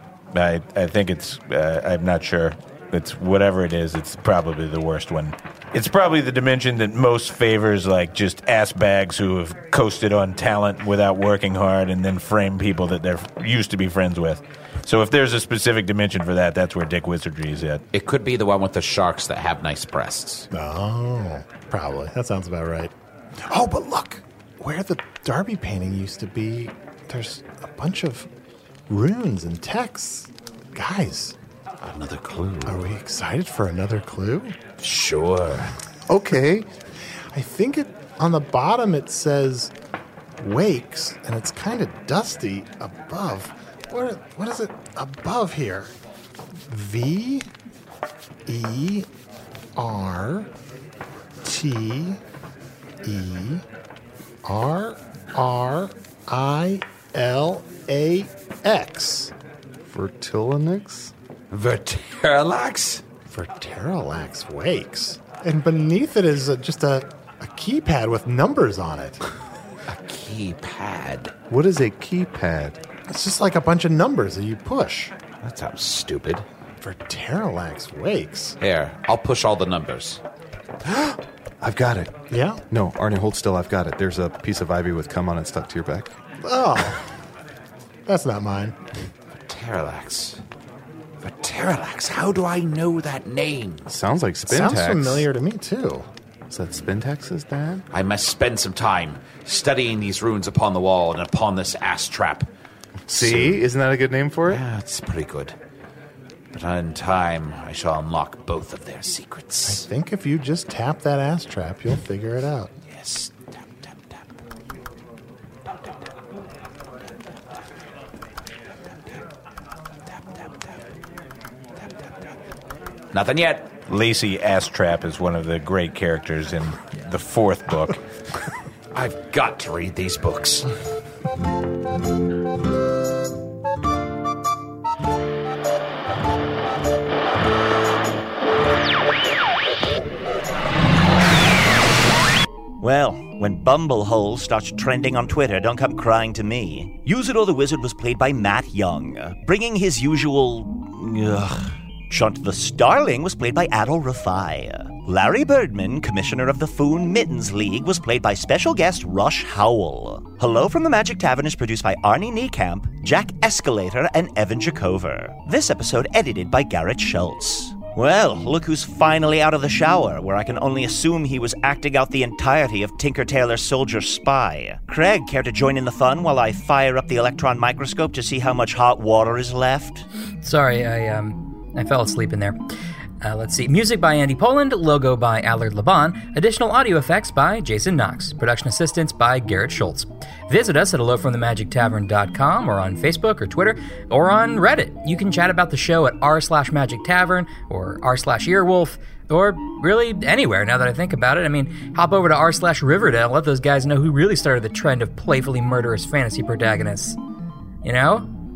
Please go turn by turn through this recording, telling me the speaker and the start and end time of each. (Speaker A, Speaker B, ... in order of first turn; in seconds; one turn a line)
Speaker A: 0.3-17.8
Speaker B: 17.9-20.4
Speaker C: 20.5-22.9
Speaker C: 23.5-28.3
Speaker C: 28.9-31.3
Speaker B: 31.8-32.8
Speaker C: 32.6-34.5
Speaker B: 34.8-35.7
Speaker D: 36.1-36.7
Speaker C: 37.3-39.7
Speaker C: 40.4-45.9
Speaker C: 46.7-47.5
Speaker C: 48.5-49.1
Speaker C: 49.8-50.5
Speaker C: 51.4-52.2
Speaker C: 53.0-53.6
Speaker C: 54.4-59.3
Speaker D: 59.8-61.1
Speaker B: 61.5-63.0
Speaker C: 63.3-69.2
Speaker B: 69.9-71.3
Speaker D: 71.5-72.8
Speaker C: 73.1-75.1
Speaker B: 75.4-76.5
Speaker C: 76.8-78.5
Speaker B: 78.6-80.2
Speaker D: 80.8-82.1
Speaker C: 82.3-82.6
Speaker D: 82.7-86.1
Speaker C: 86.4-87.0
Speaker C: 88.1-88.7
Speaker B: 89.5-90.4
Speaker B: 91.2-93.9
Speaker D: 93.9-95.3
Speaker C: 94.5-96.0
Speaker D: 96.5-97.8
Speaker B: 97.9-102.5
Speaker D: 103.1-104.6
Speaker B: 103.1-103.5
Speaker B: 104.5-105.5
Speaker B: 106.5-109.8
Speaker C: 109.7-112.7
Speaker B: 112.9-114.2
Speaker B: 123.1-123.7
Speaker A: 123.9-128.0
Speaker B: 128.9-130.7
Speaker E: 142.8-180.1
Speaker F: 180.4-182.6
Speaker F: 183.2-207.2
Speaker F: 207.8-208.3